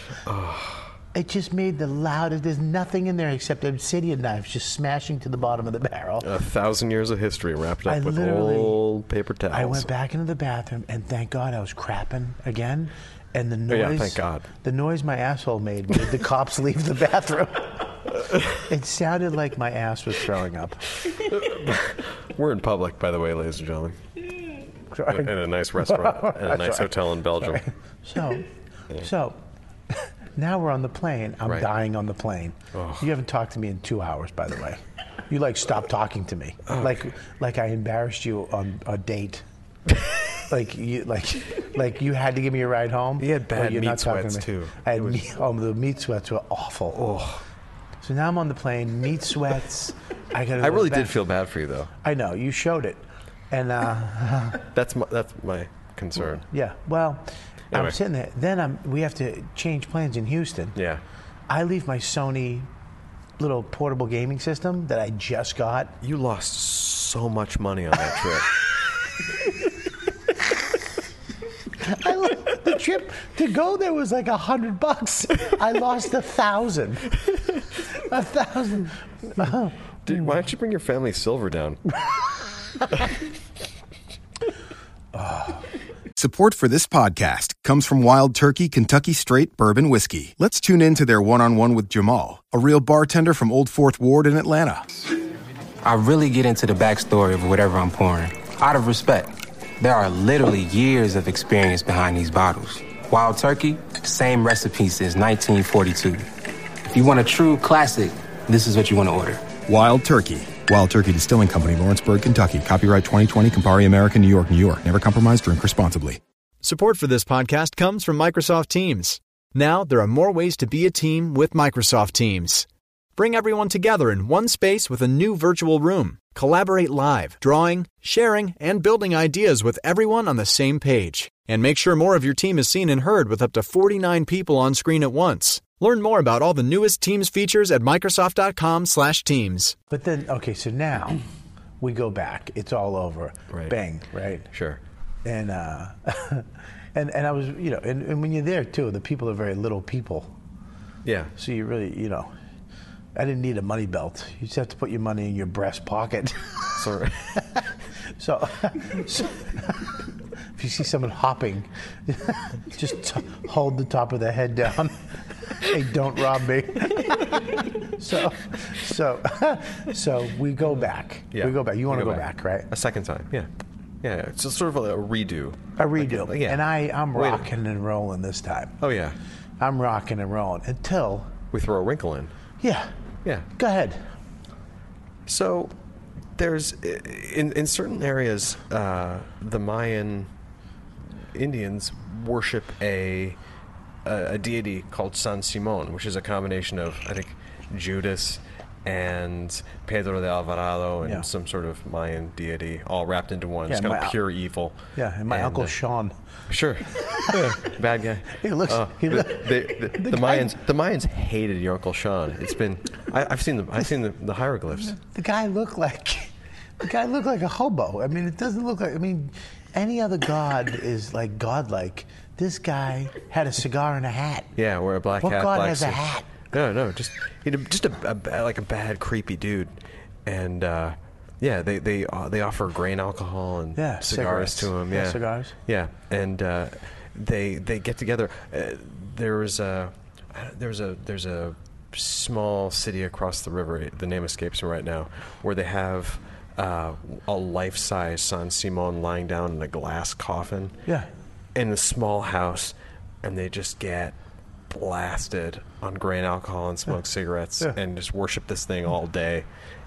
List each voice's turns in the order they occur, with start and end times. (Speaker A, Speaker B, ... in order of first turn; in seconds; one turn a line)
Speaker A: 0.2-0.9
Speaker B: 1.1-6.3
Speaker A: 6.2-9.9
Speaker B: 7.9-8.8
Speaker B: 9.5-17.9
Speaker A: 13.7-14.5
Speaker B: 18.5-20.9
Speaker A: 21.1-24.0
Speaker B: 24.9-29.4
Speaker A: 25.1-27.6
Speaker B: 29.9-39.4
Speaker A: 32.7-33.1
Speaker A: 36.7-37.0
Speaker B: 40.5-47.0
Speaker A: 43.2-45.3
Speaker A: 46.9-47.4
Speaker B: 48.0-51.2
Speaker A: 50.6-51.9
Speaker B: 52.0-54.6
Speaker A: 54.7-56.5
Speaker B: 56.4-60.8
Speaker A: 57.7-58.0
Speaker A: 60.8-61.0
Speaker B: 61.5-62.7
Speaker B: 63.4-66.0
Speaker A: 66.0-68.5
Speaker B: 71.8-77.2
Speaker B: 77.9-79.8
Speaker A: 80.0-81.8
Speaker B: 85.1-85.6
Speaker C: 86.2-95.0
Speaker D: 95.8-106.3
Speaker D: 106.9-109.5
Speaker C: 109.7-116.2
Speaker E: 116.6-139.8
Speaker B: 139.9-141.2
Speaker B: 141.8-144.5
Speaker A: 144.5-144.8
Speaker B: 145.2-150.3
Speaker A: 151.0-151.3
Speaker B: 151.4-152.3
Speaker B: 153.2-156.7
Speaker A: 156.7-157.4
Speaker B: 158.2-159.9
Speaker B: 160.6-172.7
Speaker A: 171.3-173.5
Speaker A: 174.0-177.5
Speaker B: 175.8-178.8
Speaker A: 178.8-179.2
Speaker B: 179.6-181.3
Speaker A: 181.5-182.3
Speaker B: 182.6-182.9
Speaker B: 183.6-184.0
Speaker A: 185.3-185.8
Speaker A: 186.4-190.3
Speaker A: 191.1-193.4
Speaker A: 194.1-205.8
Speaker B: 203.7-204.2
Speaker B: 204.9-206.2
Speaker A: 206.5-215.0
Speaker B: 207.1-207.5
Speaker B: 208.3-210.5
Speaker B: 214.8-224.5
Speaker A: 224.6-250.8
Speaker B: 225.2-226.3
Speaker B: 233.8-235.6
Speaker A: 251.6-254.2
Speaker A: 254.7-259.5